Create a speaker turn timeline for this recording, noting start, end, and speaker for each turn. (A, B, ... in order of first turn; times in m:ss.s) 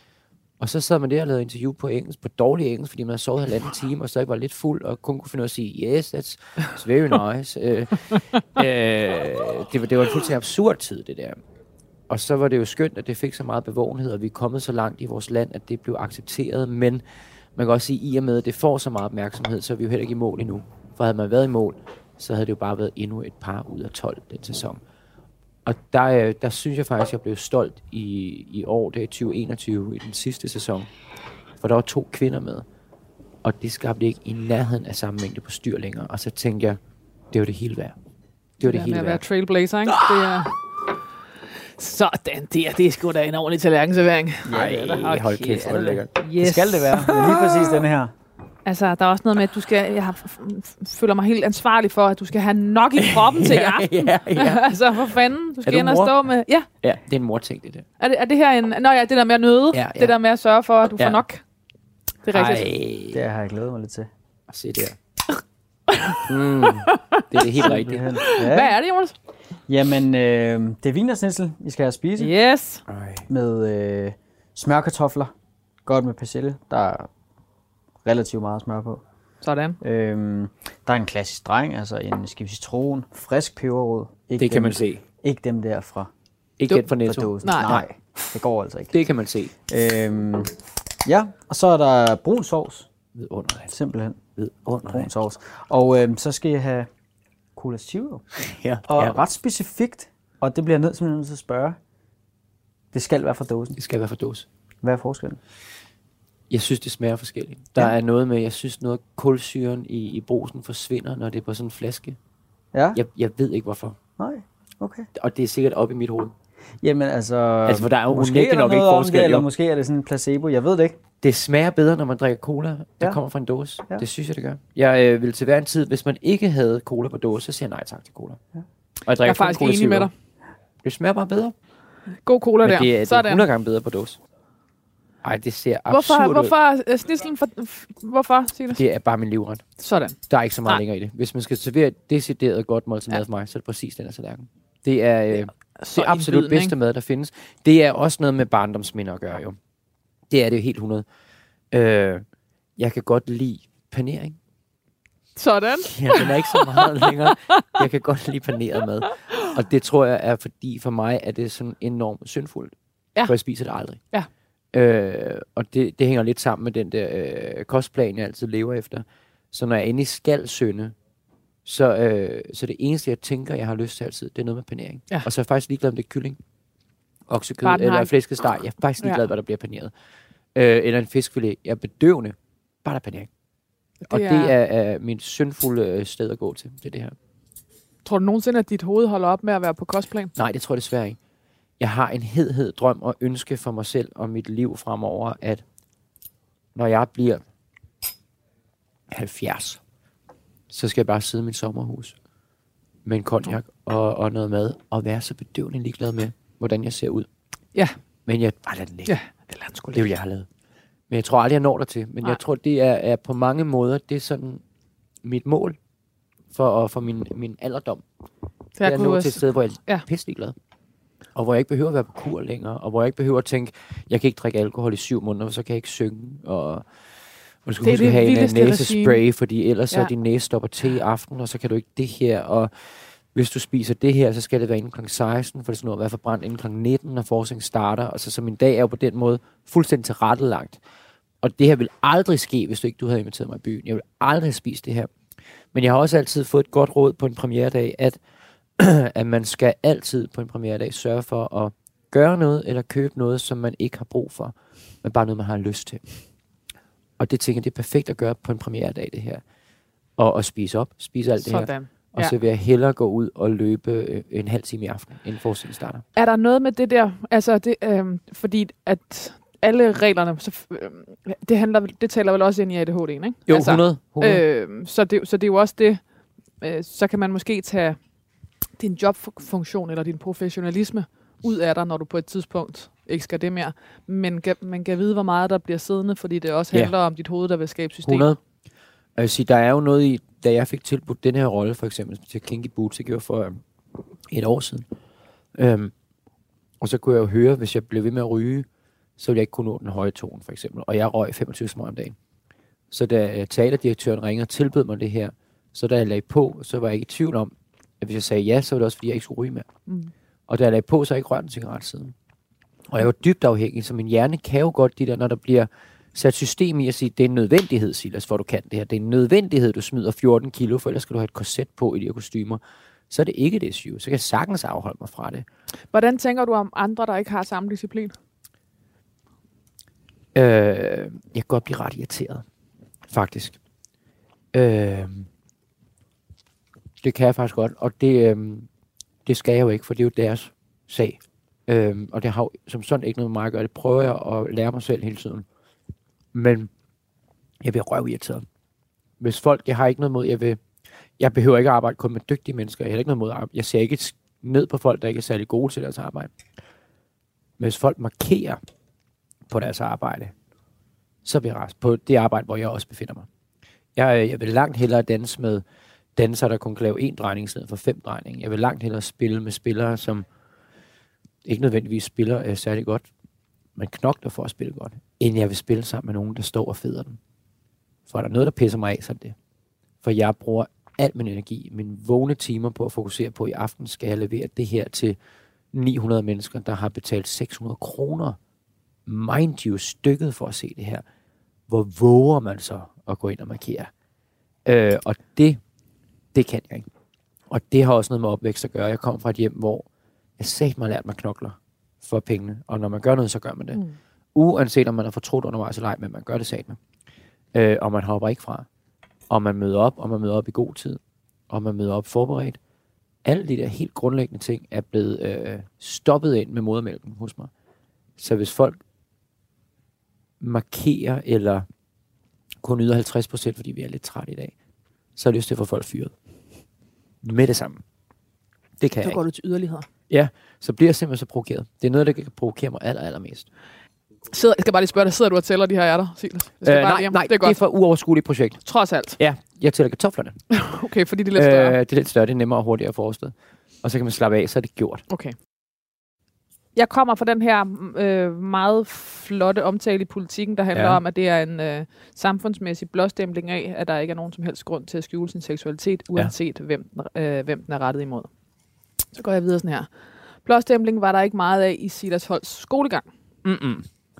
0:00.6-0:11.4 A
0:12.1-0:17.0 A
0:17.6-0:24.8 A
0:25.6-0:30.9 A
0:31.6-0:32.6 A
0:33.4-0:36.8 A
0:37.3-0:38.0 A
0:38.6-0:39.2 A
0:38.6-0:40.6 B
0:39.9-0:40.5 A
0:41.8-0:47.4 B
0:44.4-0:48.1 C
0:44.5-0:46.3 A
0:47.2-0:47.5 A
0:48.6-0:56.7 B
0:53.0-0:56.1 A
0:56.8-0:57.8 A
0:58.0-1:01.4 B
0:59.7-1:00.1 A
1:01.0-1:01.2 A
1:02.2-1:02.7 B
1:02.3-1:03.2 A
1:03.1-1:04.1 C
1:04.5-1:05.0 A
1:05.9-1:06.2 B
1:06.3-1:08.1 A
1:06.9-1:07.7 B
1:07.6-1:08.7 C
1:08.2-1:09.1 B
1:09.7-1:12.3 C
1:12.2-1:12.8 B
1:12.9-1:13.3 A
1:13.3-1:15.3 C
1:15.8-1:17.1 C
1:18.0-1:19.0 C
1:19.4-1:19.8 B
1:19.8-1:26.1 C
1:24.4-1:25.0 A
1:26.6-1:28.0 A
1:27.0-1:29.0 C
1:27.4-1:27.7 B
1:28.9-1:29.5 A
1:29.7-1:32.9 C
1:33.1-1:33.7 A
1:33.7-1:34.2 C
1:34.4-1:35.1 A
1:34.8-1:36.9 C
1:37.6-1:38.3 C
1:38.4-1:39.2 A
1:38.9-1:41.8 C
1:42.9-1:43.8 C
1:43.8-1:44.5 A
1:44.8-1:45.4 C
1:46.5-1:52.2 A
1:52.7-1:53.0 C
1:52.9-1:54.0 A
1:54.2-1:55.1 C
1:55.1-1:56.3 A
1:56.8-2:01.0 C
1:57.6-1:59.5 A
2:01.2-2:08.4 A
2:09.0-2:10.1 A
2:09.2-2:10.1 B
2:10.8-2:11.5 A
2:12.2-2:13.4 B
2:12.6-2:14.2 A
2:15.2-2:16.5 A
2:15.9-2:18.8 B
2:18.7-2:19.6 A
2:19.8-2:20.8 B
2:20.3-2:29.6 A
2:25.4-2:26.7 B
2:30.3-2:31.0 A
2:31.7-2:32.2 A
2:32.8-2:34.4 A
2:35.4-2:37.7 B
2:35.8-2:44.0 A
2:44.7-2:50.9 A
2:51.6-2:56.4 A
2:57.3-2:59.9 A
2:57.6-2:58.1 B
3:00.6-3:03.3 A
3:04.0-3:04.5 B
3:04.1-3:07.2 A
3:08.0-3:10.3 B
3:10.4-3:11.2 A
3:11.8-3:15.6 A
3:16.7-3:17.4 A
3:19.1-3:19.8 A
3:20.7-3:22.1 A
3:23.0-3:27.3 A
3:27.7-3:28.0 B
3:28.3-3:29.1 A
3:29.1-3:30.1 B
3:29.9-3:30.5 A
3:31.1-3:34.6 A
3:35.2-3:35.8 A
3:36.5-3:38.0 A
3:38.8-3:40.1 B
3:38.8-3:40.6 A
3:41.4-4:00.8 A
3:47.8-3:49.2 B
4:01.4-4:05.1 A
4:05.7-4:08.2 A
4:08.8-4:16.0 A
4:17.2-4:19.4 A
4:20.2-4:26.0 A
4:21.4-4:22.4 B
4:26.1-4:36.0 B
4:33.5-4:34.4 A
4:36.6-4:38.0 B
4:38.8-4:48.4 B
4:48.0-4:48.4 A
4:49.1-4:53.6 A
4:54.3-4:54.9 A
4:55.6-4:55.9 A
4:56.8-4:58.7 A
4:59.2-5:02.2 A
5:02.9-5:09.7 A
5:09.9-5:10.1 B
5:10.5-5:12.1 A
5:12.9-5:25.4 A
5:25.9-5:28.1 B
5:30.4-5:32.4 A
5:33.1-5:33.6 A
5:34.5-5:35.3 A
5:37.0-5:38.7 A
5:39.2-5:45.4 A
5:46.3-5:46.7 A
5:47.6-5:48.4 A
5:49.2-5:50.6 A
5:51.2-5:56.3 A
5:57.6-5:58.6 A
5:59.5-6:00.3 A
6:01.2-6:03.3 A
6:03.9-6:05.6 A
6:06.2-6:10.2 A
6:11.4-6:13.1 A
6:13.8-6:17.2 A
6:18.1-6:19.4 A
6:20.0-6:25.2 A
6:25.7-6:28.4 A
6:29.1-6:31.0 A
6:31.7-6:33.9 A
6:34.6-6:35.6 A
6:36.3-6:36.9 A
6:37.5-6:39.9 A
6:40.4-6:46.8 A
6:47.5-6:48.7 A
6:49.3-6:52.6 A
6:53.2-6:57.5 A
6:58.2-6:58.8 A
7:00.4-7:01.7 A
7:02.6-7:04.5 A
7:05.2-7:06.1 A
7:07.2-7:07.8 A
7:08.8-7:09.2 A
7:09.0-7:09.9 B
7:10.1-7:13.5 A
7:14.3-7:17.6 B
7:16.6-7:18.6 A
7:18.6-7:19.2 B
7:19.2-7:20.4 A
7:20.5-7:21.8 B
7:21.3-7:25.0 A
7:25.1-7:25.3 B
7:26.8-7:38.3 B
7:30.7-7:31.0 A
7:39.1-7:39.9 B
7:40.4-7:43.1 B
7:43.4-7:43.9 A